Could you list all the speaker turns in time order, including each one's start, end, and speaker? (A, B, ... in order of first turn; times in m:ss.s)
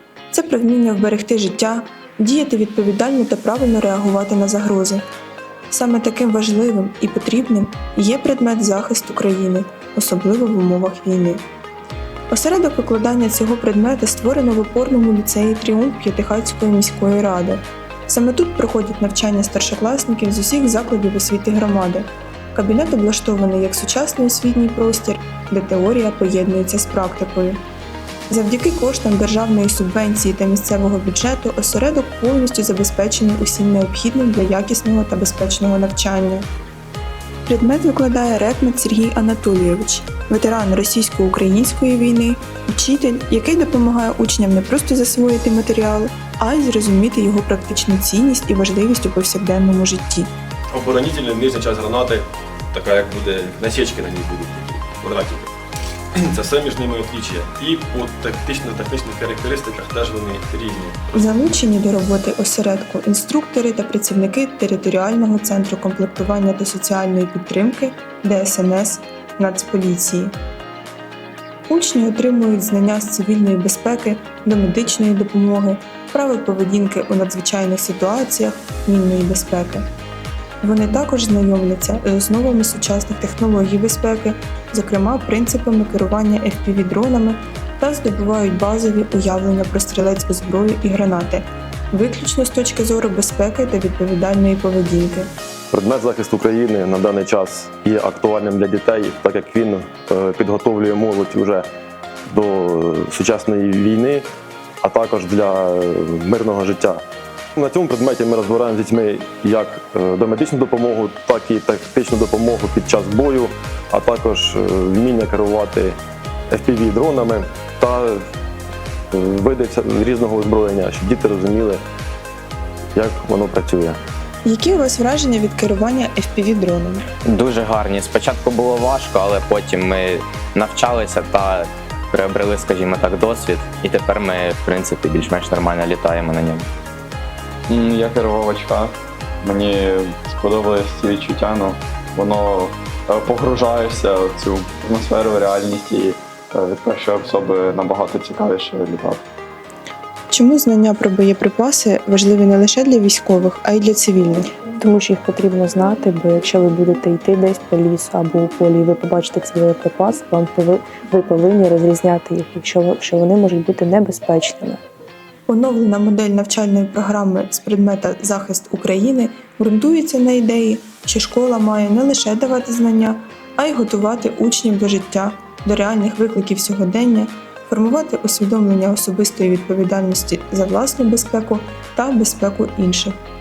0:00.3-0:05.0 A
0:05.7-0:11.4 A
0:12.3-0:27.6 A
0:28.3-0:36.5 A
0:37.5-0:50.3 A
0:50.7-0:55.5 B
0:56.1-1:01.4 B
1:01.1-1:10.3 A
1:11.7-1:19.9 A
1:20.6-1:35.3 A
1:35.7-1:41.6 C
1:42.3-1:44.2 C
1:44.8-1:47.0 C
1:47.6-1:56.0 C
1:56.5-1:58.2 C
1:59.1-2:01.8 C
2:03.0-2:04.0 C
2:04.4-2:07.0 A
2:07.2-2:16.7 D
2:17.7-2:29.2 E
2:30.3-2:34.5 A
2:34.8-2:44.8 F
2:45.5-3:03.2 A